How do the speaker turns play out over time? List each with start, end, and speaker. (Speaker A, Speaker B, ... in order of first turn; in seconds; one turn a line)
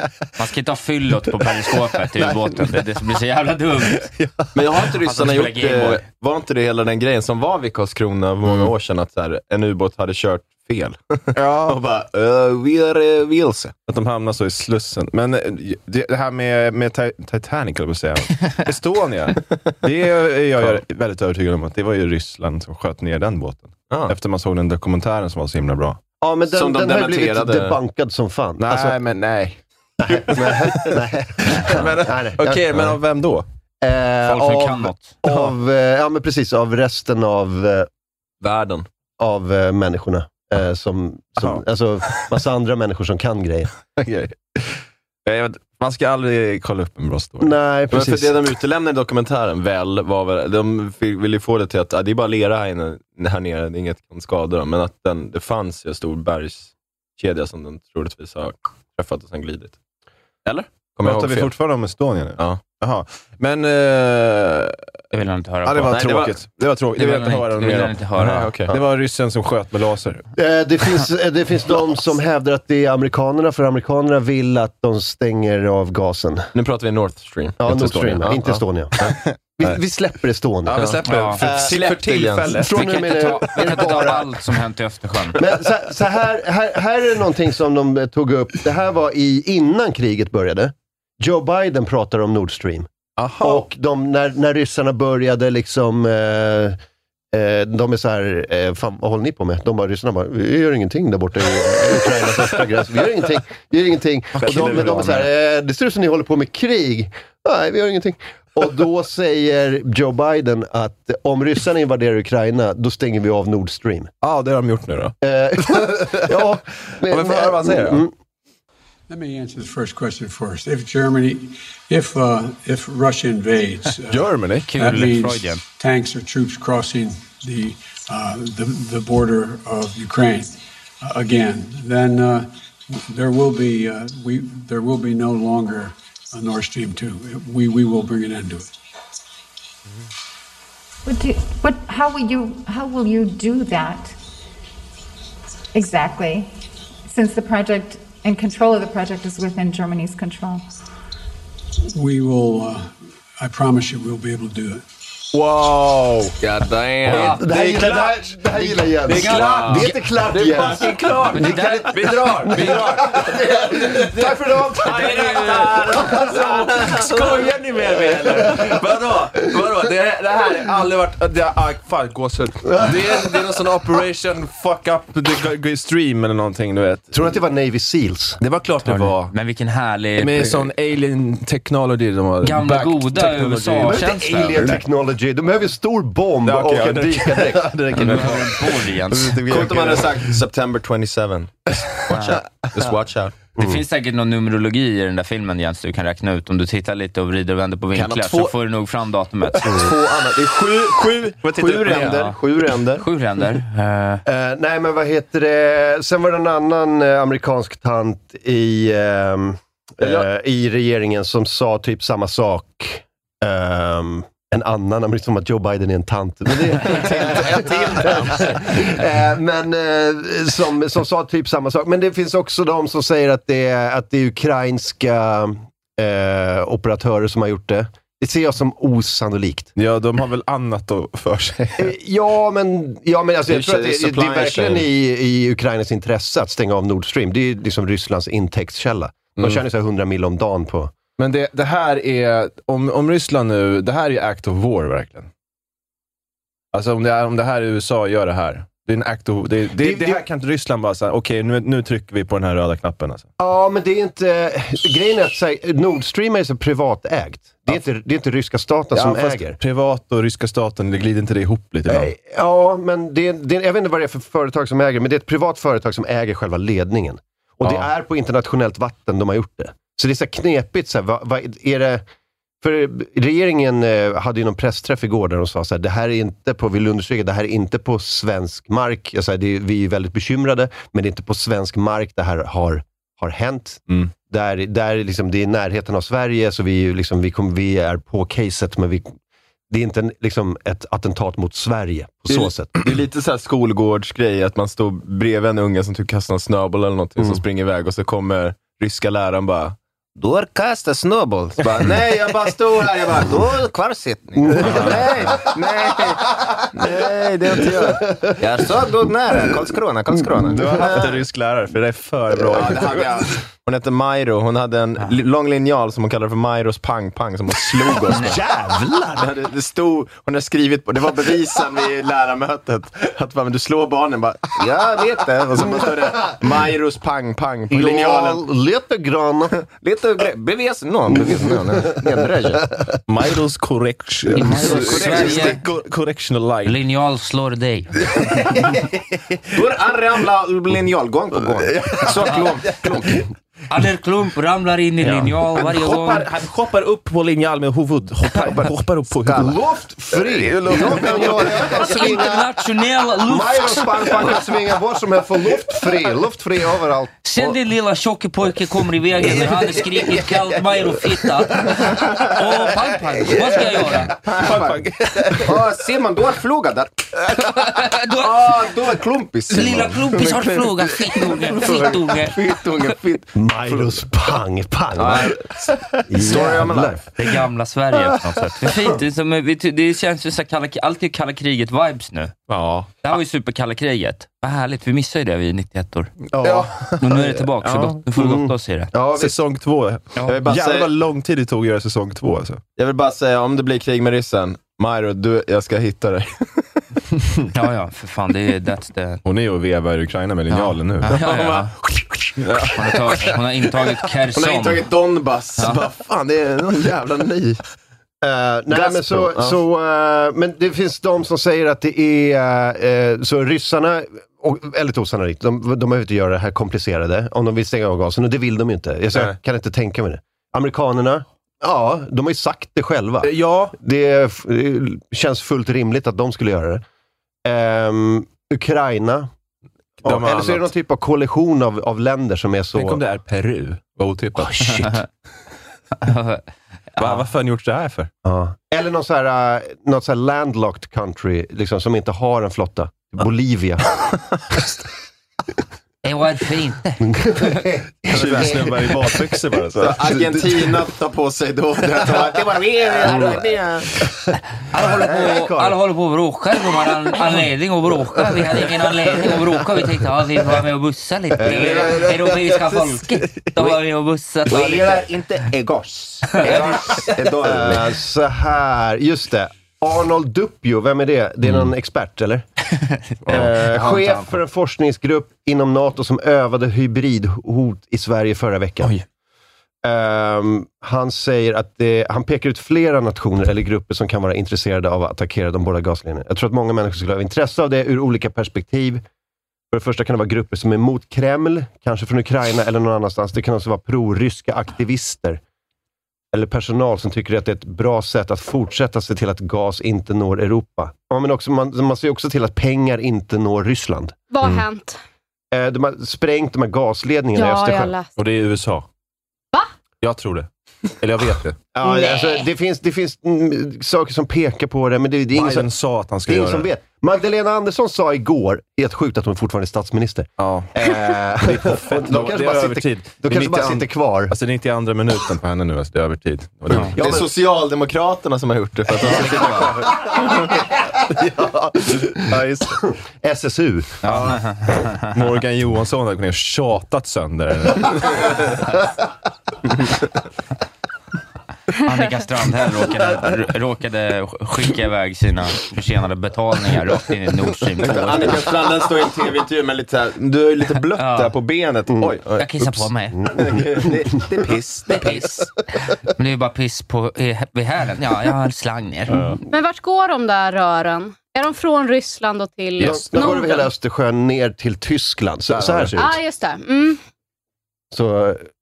Speaker A: 0.4-4.1
Speaker B: 4.2-4.5
Speaker C: 4.5-13.8
Speaker A: 5.0-6.0
Speaker B: 11.3-11.8
Speaker B: 13.8-26.0
Speaker C: 23.9-24.1
Speaker D: 26.2-29.0
Speaker C: 26.5-27.8
Speaker B: 28.6-33.5
Speaker D: 30.0-33.0
Speaker D: 33.8-37.9
Speaker A: 34.2-35.2
Speaker C: 38.4-38.9
Speaker D: 39.2-43.7
Speaker B: 44.0-47.5
Speaker D: 47.4-48.4
Speaker C: 47.9-59.8
Speaker C: 60.5-61.5
Speaker B: 61.0-64.8
Speaker A: 65.1-66.0
Speaker B: 65.7-70.3
Speaker C: 65.9-66.4
Speaker A: 67.0-68.5
Speaker C: 68.3-68.8
Speaker D: 70.3-76.5
Speaker C: 76.5-77.6
Speaker D: 77.6-81.8
Speaker B: 77.7-79.8
Speaker B: 80.7-82.8
Speaker C: 80.8-82.6
Speaker A: 81.1-81.4
Speaker D: 82.5-84.4
Speaker A: 82.7-85.4
Speaker D: 85.4-92.9
Speaker B: 93.2-93.7
Speaker D: 93.4-96.8
Speaker D: 97.3-114.1
Speaker B: 104.3-105.3
Speaker B: 114.2-118.0
Speaker D: 115.2-118.1
Speaker E: 119.1-138.8
Speaker B: 124.1-124.7
Speaker A: 124.7-125.6
Speaker F: 141.1-144.2
Speaker F: 145.7-146.5
Speaker F: 147.1-150.7
Speaker E: 151.9-154.8
Speaker B: 155.3-156.4
Speaker C: 156.4-157.8
Speaker B: 157.1-158.2
Speaker D: 157.1-167.0
Speaker A: 157.1-157.4
Speaker A: 159.1-160.0
Speaker B: 159.1-177.1
Speaker C: 159.2-160.8
Speaker A: 161.2-162.3
Speaker A: 164.8-165.8
Speaker C: 165.9-167.2
Speaker D: 172.7-173.4
Speaker D: 177.1-178.4
Speaker B: 178.4-179.3
Speaker A: 178.8-180.7
Speaker B: 180.2-184.1
Speaker A: 182.4-184.8
Speaker D: 183.8-188.4
Speaker B: 186.4-190.2
Speaker A: 187.9-189.4
Speaker C: 189.5-193.3
Speaker A: 192.1-192.3
Speaker A: 193.6-199.6
Speaker C: 197.9-198.5
Speaker C: 199.6-203.1
Speaker B: 201.4-202.3
Speaker A: 201.9-202.4
Speaker A: 202.9-204.2
Speaker D: 204.3-229.7
Speaker A: 216.9-218.5
Speaker B: 229.8-231.9
Speaker D: 231.8-240.9
Speaker C: 233.5-234.9
Speaker B: 241.2-245.3
Speaker B: 246.7-253.3
Speaker D: 249.8-250.2
Speaker D: 253.4-259.6
Speaker B: 258.9-262.1
Speaker D: 261.9-272.0
Speaker D: 272.6-289.2
Speaker D: 289.7-292.8
Speaker C: 292.3-311.2
Speaker D: 304.4-305.4
Speaker B: 304.7-304.9
Speaker D: 308.0-308.3
Speaker B: 310.5-313.2
Speaker D: 310.5-310.9
Speaker C: 312.5-318.4
Speaker D: 318.0-319.3
Speaker C: 319.1-328.4
Speaker D: 327.7-329.6
Speaker C: 329.8-332.6
Speaker B: 333.1-336.8
Speaker A: 334.4-335.6
Speaker C: 334.6-335.6
Speaker A: 336.6-338.0
Speaker B: 338.1-338.9
Speaker C: 339.5-343.2
Speaker B: 341.5-343.2
Speaker A: 343.7-346.3
Speaker B: 345.0-349.6
Speaker D: 349.3-352.5
Speaker B: 350.4-351.9
Speaker C: 350.8-351.5
Speaker A: 351.7-354.0
Speaker D: 353.2-357.6
Speaker A: 357.2-364.1
Speaker C: 364.2-367.5
Speaker B: 364.3-365.6
Speaker A: 367.4-368.5
Speaker C: 368.1-370.7
Speaker A: 369.5-372.4
Speaker C: 371.5-373.8
Speaker D: 373.4-375.4
Speaker C: 375.0-375.5
Speaker D: 376.1-377.0
Speaker C: 376.1-377.0
Speaker A: 377.2-382.3
Speaker B: 382.5-382.9
Speaker A: 383.0-386.1
Speaker D: 386.3-387.2
Speaker B: 386.4-388.0
Speaker A: 387.0-388.9
Speaker D: 388.1-389.4
Speaker B: 389.1-392.6
Speaker A: 390.1-390.4
Speaker C: 390.3-390.9
Speaker C: 392.8-396.8
Speaker A: 397.5-399.2
Speaker B: 399.2-401.2
Speaker A: 400.5-401.7
Speaker C: 401.1-402.3
Speaker B: 402.4-403.2
Speaker A: 402.7-404.9
Speaker C: 404.4-407.6
Speaker D: 408.2-426.8
Speaker C: 408.7-409.5
Speaker B: 423.2-423.8
Speaker D: 427.4-429.3
Speaker B: 430.0-430.7
Speaker D: 430.0-433.0
Speaker B: 432.8-435.0
Speaker A: 434.7-435.1
Speaker A: 436.0-436.4
Speaker A: 436.9-437.3
Speaker B: 437.0-438.1
Speaker D: 438.2-444.0
Speaker A: 446.0-447.6
Speaker D: 447.0-449.2
Speaker B: 448.1-450.3
Speaker C: 448.1-448.6
Speaker C: 449.8-453.9
Speaker D: 450.1-450.4
Speaker D: 453.0-453.4
Speaker A: 454.7-465.0
Speaker D: 454.8-455.8
Speaker D: 461.4-462.3
Speaker C: 461.6-461.9
Speaker C: 464.5-467.8
Speaker D: 466.4-472.4
Speaker B: 473.2-473.6
Speaker D: 473.3-478.9
Speaker D: 479.8-489.0
Speaker D: 489.7-495.4
Speaker D: 496.3-504.2
Speaker G: 504.3-505.0
Speaker D: 505.5-507.9
Speaker G: 507.4-508.1
Speaker B: 508.2-508.9
Speaker B: 510.0-510.5
Speaker B: 511.0-511.6
Speaker D: 511.8-515.7
Speaker G: 511.8-512.5
Speaker B: 515.3-516.7
Speaker D: 516.2-524.4
Speaker B: 520.4-520.7
Speaker B: 521.3-527.0
Speaker D: 526.9-527.3
Speaker C: 527.0-529.9
Speaker D: 529.1-534.0
Speaker B: 529.1-529.5
Speaker A: 529.2-529.7
Speaker B: 532.4-532.6
Speaker A: 534.0-535.1
Speaker B: 534.1-534.4
Speaker B: 535.1-538.5
Speaker A: 541.8-548.4
Speaker C: 547.9-555.2
Speaker A: 551.0-551.4
Speaker A: 552.4-553.2
Speaker D: 553.3-553.9
Speaker A: 554.9-555.5
Speaker A: 556.0-559.4
Speaker B: 559.1-559.4
Speaker G: 559.5-563.7
Speaker D: 562.8-566.1
Speaker B: 562.8-563.3
Speaker B: 565.5-566.1
Speaker G: 566.0-567.0
Speaker D: 567.9-568.5